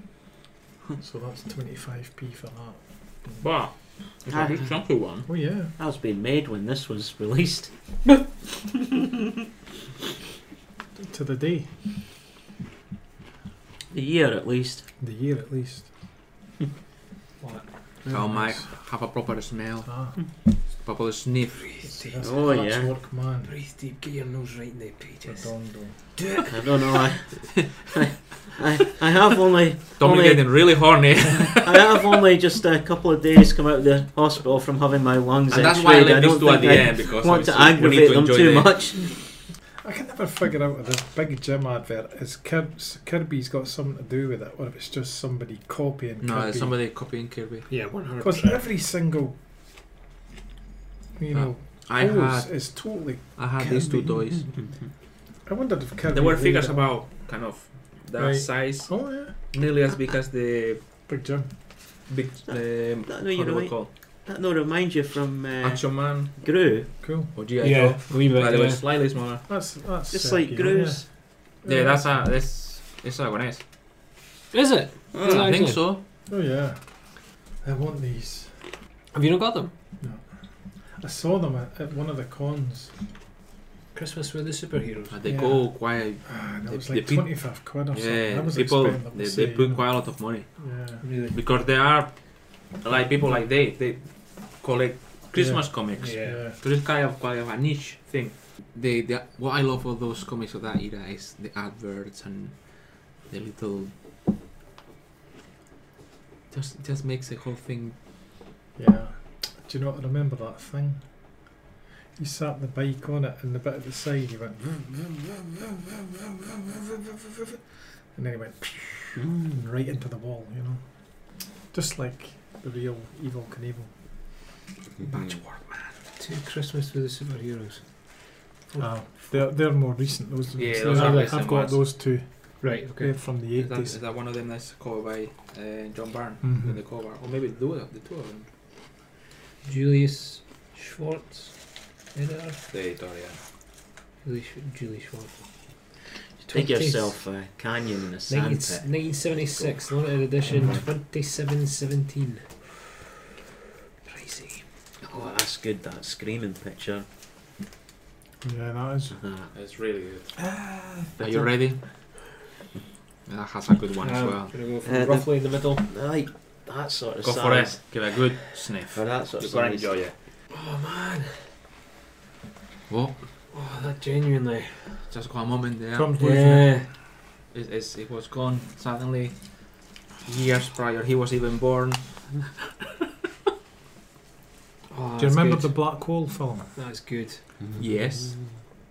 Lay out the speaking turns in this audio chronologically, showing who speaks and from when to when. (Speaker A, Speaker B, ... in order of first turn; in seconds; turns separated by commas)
Speaker A: 1.0-3.4, Speaker B: 3.4-5.3, Speaker C: 4.3-4.5, Speaker A: 5.2-5.7, Speaker C: 5.8-7.7, Speaker A: 10.9-11.7, Speaker C: 13.9-14.8, Speaker A: 15.0-15.9, Speaker D: 17.4-18.1, Speaker A: 18.1-18.7, Speaker B: 18.1-21.8, Speaker A: 19.8-20.1, Speaker D: 21.7-22.2, Speaker A: 21.8-23.5, Speaker C: 22.2-22.9, Speaker D: 23.4-25.5, Speaker A: 25.3-26.1, Speaker D: 26.1-27.0, Speaker C: 26.5-30.6, Speaker B: 30.0-32.2, Speaker C: 31.6-39.1, Speaker B: 35.5-38.7, Speaker A: 39.8-46.7, Speaker B: 46.2-47.7, Speaker D: 47.7-48.7, Speaker A: 48.2-49.4, Speaker A: 51.1-54.3, Speaker B: 51.3-54.7, Speaker A: 55.4-56.9, Speaker B: 56.1-60.8, Speaker A: 58.1-59.3, Speaker A: 61.1-61.5, Speaker B: 62.1-63.9, Speaker C: 62.5-66.9, Speaker B: 65.6-66.4, Speaker A: 67.0-67.3, Speaker B: 67.3-69.5, Speaker D: 67.6-68.8, Speaker A: 69.5-71.1, Speaker C: 70.1-71.0, Speaker A: 71.6-72.3, Speaker B: 71.6-73.6, Speaker D: 74.5-75.8, Speaker C: 75.1-75.5, Speaker B: 75.2-76.0, Speaker A: 76.3-76.8, Speaker A: 77.6-78.5, Speaker D: 79.1-79.7, Speaker A: 80.9-82.9, Speaker D: 83.9-85.2, Speaker B: 85.1-90.5, Speaker A: 85.2-91.0, Speaker D: 91.0-91.4, Speaker B: 91.3-103.9, Speaker A: 95.3-96.6, Speaker D: 96.0-96.4, Speaker B: 106.5-108.0, Speaker A: 108.8-111.0, Speaker A: 112.2-123.9, Speaker B: 125.0-125.9, Speaker D: 126.2-127.9, Speaker D: 128.7-129.4, Speaker A: 128.8-134.0, Speaker B: 130.6-131.8, Speaker D: 130.8-131.4, Speaker D: 132.6-133.1, Speaker B: 133.6-138.5, Speaker A: 136.4-136.8, Speaker D: 139.6-141.6, Speaker D: 142.1-142.6, Speaker B: 142.7-143.4, Speaker D: 144.2-145.4, Speaker C: 146.4-149.7, Speaker D: 146.5-147.2, Speaker D: 148.3-152.5, Speaker A: 150.5-150.8, Speaker D: 154.1-154.6, Speaker C: 155.0-157.1, Speaker A: 158.4-159.2, Speaker C: 159.2-159.4, Speaker B: 159.5-160.4, Speaker A: 160.6-161.0, Speaker C: 161.2-161.5, Speaker B: 161.2-161.8, Speaker B: 163.3-164.5, Speaker D: 164.0-165.9, Speaker C: 164.8-167.8, Speaker B: 167.2-170.1, Speaker C: 168.9-170.0, Speaker D: 170.5-171.5, Speaker B: 172.9-173.2, Speaker D: 173.5-175.0, Speaker B: 175.1-176.1, Speaker A: 175.9-176.8, Speaker D: 176.2-176.9, Speaker B: 177.5-179.7, Speaker B: 180.2-182.5, Speaker D: 184.9-185.9, Speaker A: 185.2-186.7, Speaker D: 186.8-187.4, Speaker B: 187.8-188.4